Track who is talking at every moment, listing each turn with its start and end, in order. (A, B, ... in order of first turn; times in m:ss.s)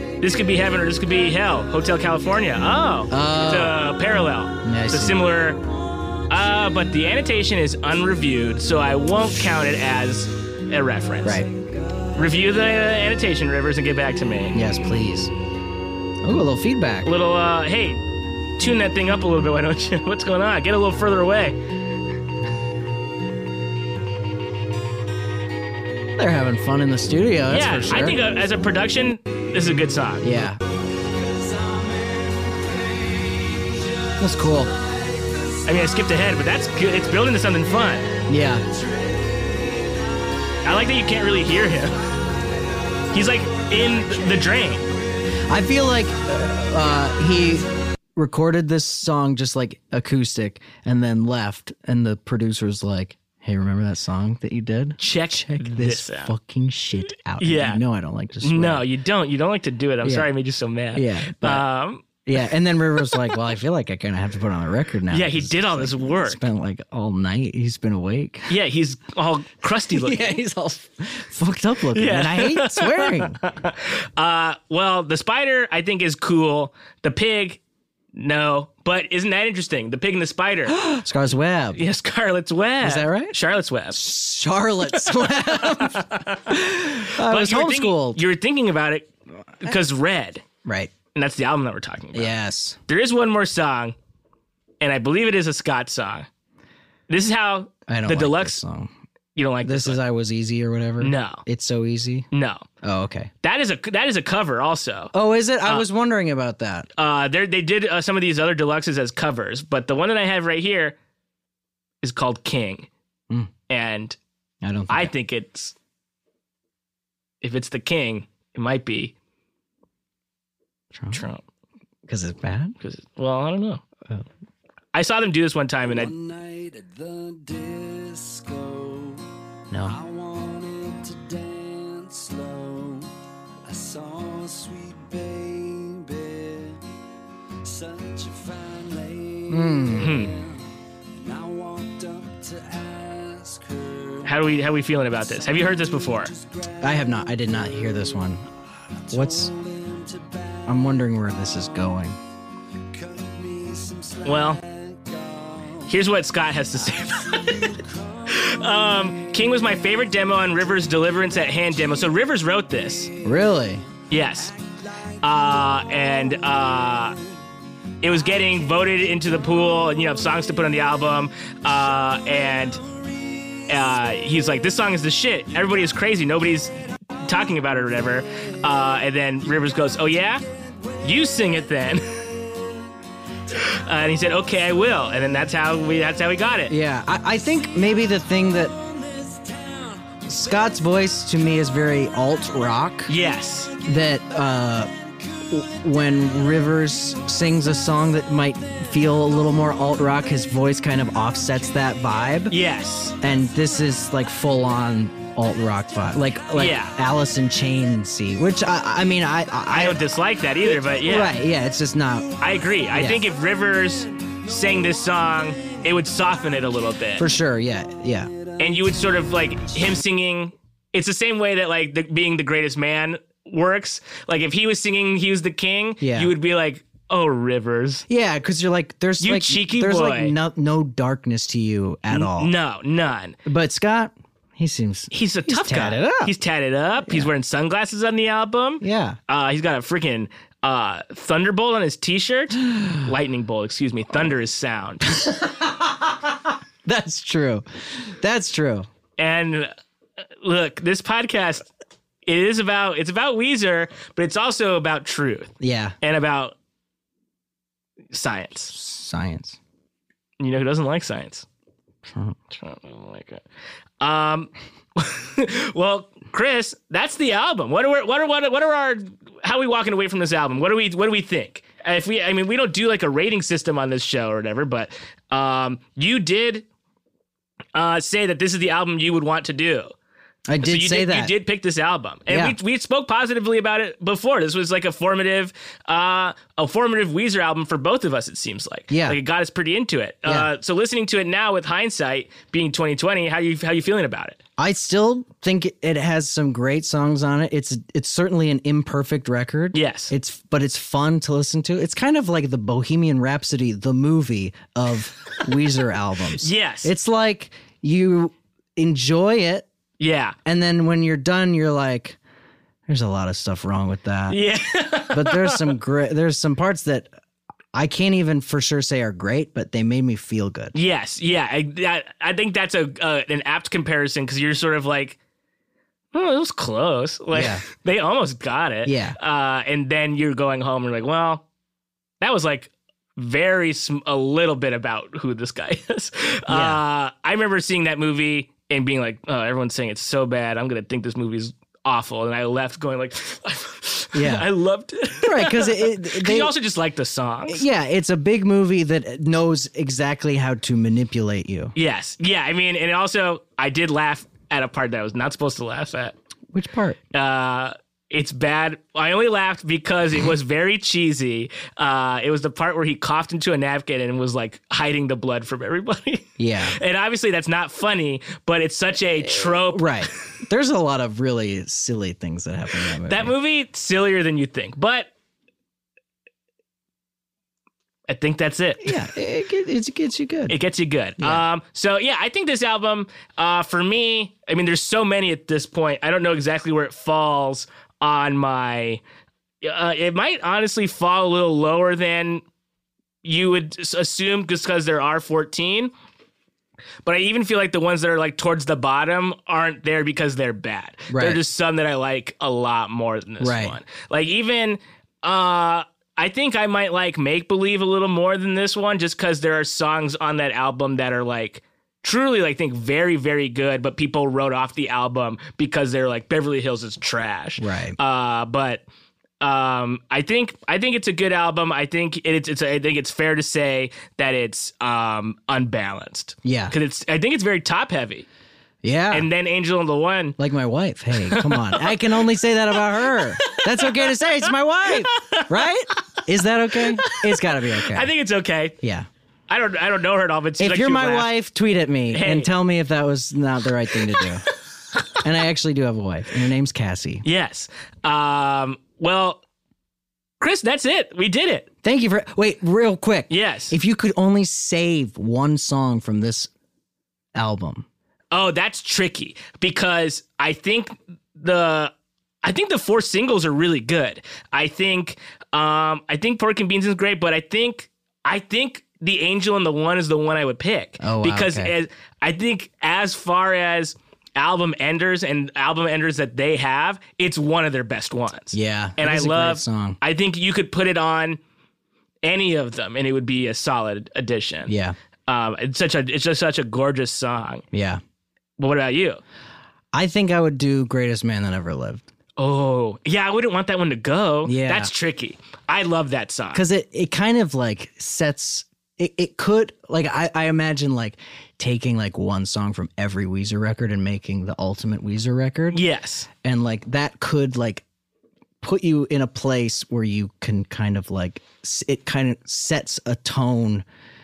0:00.2-0:05.6 A
0:03.1-0:03.8 B
0:04.6-0:05.3 B
0:06.3-0:11.4 A
0:12.1-0:14.6 A
0:14.5-0:15.3 B
0:16.2-0:17.1 B
0:17.0-0:18.0 A
0:18.6-0:21.6 A
0:26.2-0:28.2 B
0:27.5-0:30.3 A
0:30.2-0:30.6 B
0:31.0-0:35.9 C
0:34.2-0:34.7 B
0:35.6-0:38.1 A
0:38.3-0:38.6 B
0:38.6-0:40.2 C
0:40.6-0:42.1 A
0:42.2-0:44.7 C
0:43.1-0:44.9 A
0:45.5-0:58.9 B
0:55.0-0:56.3 A
0:57.4-0:57.8 A
0:58.4-1:02.0 A
1:00.0-1:00.3 B
1:00.9-1:01.6 B
1:02.2-1:08.5 B
1:05.1-1:06.4 A
1:08.5-1:10.4 A
1:09.9-1:13.4 B
1:11.9-1:17.6 A
1:18.1-1:20.8 A
1:20.7-1:21.8 B
1:21.7-1:24.0 A
1:22.8-1:23.4 B
1:23.9-1:28.2 B
1:24.9-1:30.4 A
1:30.6-1:30.9 B
1:31.1-1:32.3 A
1:32.1-1:32.8 B
1:32.9-1:33.9 A
1:34.8-1:36.3 A
1:37.1-1:38.6 A
1:37.9-1:38.9 B
1:39.3-1:40.0 A
1:39.6-1:42.3 B
1:41.0-1:41.4 A
1:42.3-1:42.6 A
1:42.8-1:43.3 B
1:43.4-1:45.1 A
1:45.1-1:46.9 B
1:47.0-1:51.0 A
1:52.0-1:52.9 A
1:53.7-1:54.2 A
1:54.6-1:55.1 B
1:54.9-1:55.7 A
1:57.4-1:59.1 A
2:00.9-2:01.2 B
2:01.1-2:01.4 A
2:02.1-2:02.8 B
2:02.8-2:03.8 A
2:04.9-2:06.1 A
2:05.9-2:09.2 C
2:09.7-2:10.0 B
2:09.8-2:13.1 C
2:13.6-2:16.8 C
2:17.6-2:24.4 C
2:19.5-2:20.2 B
2:20.0-2:20.4 A
2:24.2-2:26.3 A
2:25.3-2:27.8 C
2:26.8-2:28.4 B
2:29.0-2:30.9 C
2:29.1-2:29.5 B
2:30.7-2:32.2 B
2:32.9-2:36.0 C
2:34.2-2:34.6 A
2:35.9-2:43.1 A
2:36.8-2:38.6 C
2:40.9-2:42.1 C
2:42.8-2:47.1 C
2:43.2-2:43.8 B
2:44.1-2:44.5 A
2:45.2-2:47.2 A
2:48.0-2:52.8 A
2:48.4-2:48.9 C
2:53.7-3:00.4 A
3:00.8-3:01.3 C
3:01.0-3:02.3 A
3:03.5-3:06.7 A
3:06.7-3:08.7 B
3:08.5-3:10.3 C
3:10.2-3:13.1 B
3:13.1-3:13.7 A
3:13.8-3:14.9 B
3:15.5-3:22.5 B
3:22.5-3:23.2 A
3:23.2-3:30.0 B
3:26.6-3:27.0 A
3:29.7-3:31.4 A
3:30.7-3:32.3 B
3:32.4-3:37.3 A
3:32.9-3:33.2 B
3:37.2-3:38.3 B
3:38.5-3:39.0 C
3:38.6-3:48.0 A
3:46.0-3:46.3 B
3:48.1-3:52.5 B
3:49.2-3:50.4 A
3:52.1-3:53.4 A
3:53.4-3:56.3 B
3:55.1-4:05.1 A
3:57.0-3:57.3 B
3:58.8-3:59.2 B
4:02.7-4:03.0 B
4:05.1-4:08.9 B
4:09.2-4:09.7 A
4:10.4-4:11.7 A
4:12.2-4:16.6 A
4:15.6-4:16.0 B
4:18.1-4:18.7 A
4:18.7-4:19.6 B
4:20.4-4:21.4 A
4:22.0-4:22.4 B
4:22.5-4:23.4 A
4:24.0-4:36.6 A
4:37.7-4:39.9 A
4:40.5-4:41.3 B
4:40.6-4:54.4 A
4:42.3-4:42.6 B
4:48.9-4:49.2 B
4:50.2-4:50.5 B
4:54.6-5:09.7 B
4:59.7-5:00.1 A
5:06.3-5:06.9 A
5:10.0-5:10.4 A
5:10.4-5:12.2 B
5:12.9-5:14.4 B
5:14.3-5:15.7 A
5:15.1-5:17.1 B
5:17.7-5:20.7 B
5:20.7-5:25.2 A
5:26.1-5:31.4 A
5:27.3-5:27.6 B
5:28.8-5:29.2 B
5:32.2-5:47.6 A
5:36.5-5:36.8 B
5:44.1-5:44.5 B
5:45.2-5:46.5 B
5:47.5-5:51.7 B
5:51.7-5:56.2 A
5:56.5-5:57.0 B
5:57.1-6:10.2 A
6:06.4-6:06.8 B
6:09.2-6:13.3 B
6:13.0-6:15.1 A
6:18.1-6:19.0 A
6:18.8-6:20.6 B
6:20.5-6:29.0 A
6:21.2-6:21.4 B
6:29.6-6:32.4 A
6:33.2-6:35.9 A
6:37.0-6:58.8 A
6:41.1-6:41.4 B
6:43.4-6:43.8 B
6:57.6-6:58.0 B
6:59.4-7:08.2 A
7:06.4-7:06.7 B
7:08.8-7:09.3 B
7:09.1-7:10.4 A
7:10.4-7:18.1 B
7:11.3-7:12.0 A
7:13.0-7:16.0 A
7:16.7-7:18.8 A
7:18.8-7:19.1 B
7:19.5-7:21.3 A
7:20.6-7:24.5 B
7:22.1-7:22.5 A
7:25.2-7:27.2 B
7:27.2-7:29.4 A
7:30.4-7:31.7 A
7:31.8-7:36.5 B
7:33.3-7:33.8 A
7:37.3-7:37.8 B
7:38.3-8:01.4 A
7:51.0-7:51.7 B
7:58.5-8:00.0 B
8:02.2-8:04.7 A
8:04.7-8:05.0 B
8:05.3-8:07.6 A
8:07.7-8:08.0 B
8:08.6-8:09.2 A
8:09.9-8:12.0 B
8:12.4-8:16.6 A
8:14.4-8:14.9 B
8:16.5-8:25.8 B
8:25.7-8:26.3 A
8:26.4-8:27.8 B
8:28.6-8:33.8 B